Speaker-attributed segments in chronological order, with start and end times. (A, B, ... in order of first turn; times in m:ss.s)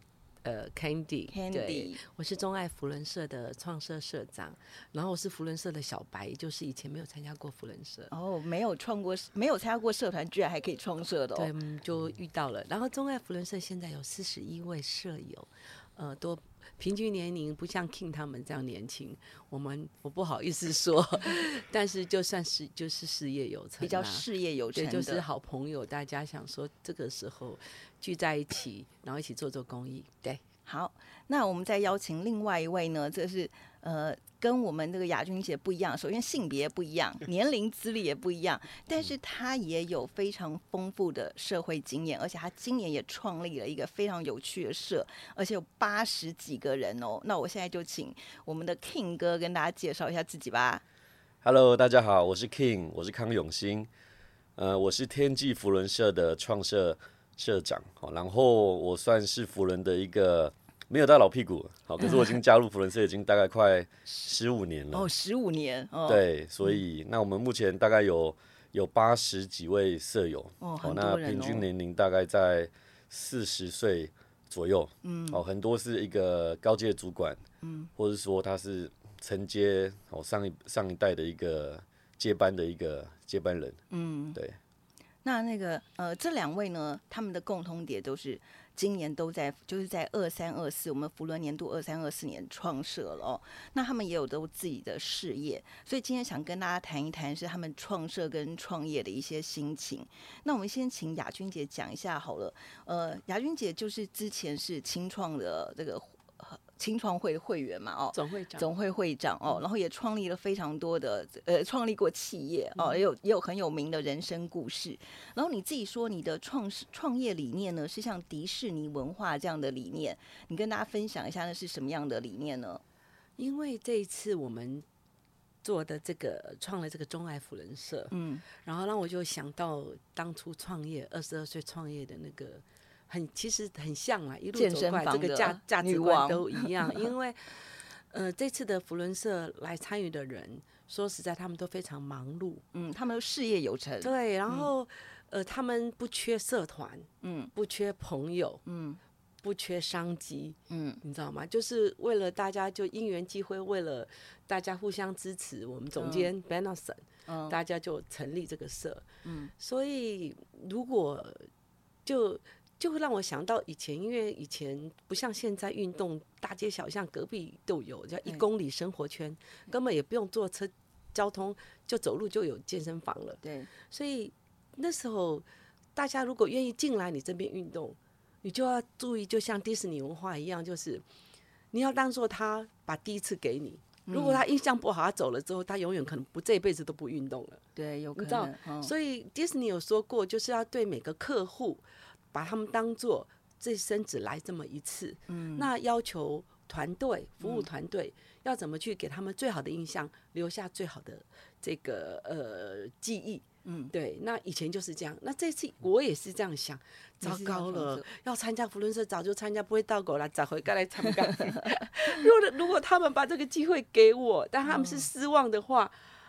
0:00.4-0:08.1 A
0:01.3-0:02.0 B
0:08.1-0:11.5 B
0:11.3-0:30.4 A
0:23.8-0:25.2 B
0:30.6-0:50.8 B
0:51.4-0:53.9 C
0:54.6-1:05.1 C
1:04.9-1:06.2 B
1:06.1-1:17.4 C
1:10.6-1:11.6 B
1:15.0-1:15.4 B
1:17.6-1:17.9 B
1:18.0-1:23.8 C
1:23.9-1:24.4 B
1:25.2-2:02.8 B
1:48.1-1:48.7 A
2:03.4-2:04.8 A
2:05.6-2:22.6 A
2:08.1-2:08.4 B
2:14.5-2:17.1 B
2:22.7-2:24.7 B
2:24.0-2:28.6 A
2:27.2-2:27.5 B
2:28.6-2:29.0 B
2:29.4-2:39.0 A
2:30.7-2:31.0 B
2:36.0-2:36.3 B
2:37.2-2:37.5 B
2:39.2-2:39.5 B
2:39.6-2:41.5 A
2:42.0-3:01.0 A
2:53.4-2:53.7 B
3:01.7-3:07.6 A
3:04.1-3:04.4 B
3:07.8-3:08.9 B
3:08.2-3:35.9 A
3:15.3-3:15.7 B
3:17.4-3:17.7 B
3:23.6-3:23.9 B
3:27.2-3:28.1 B
3:31.2-3:31.8 B
3:34.6-3:35.1 B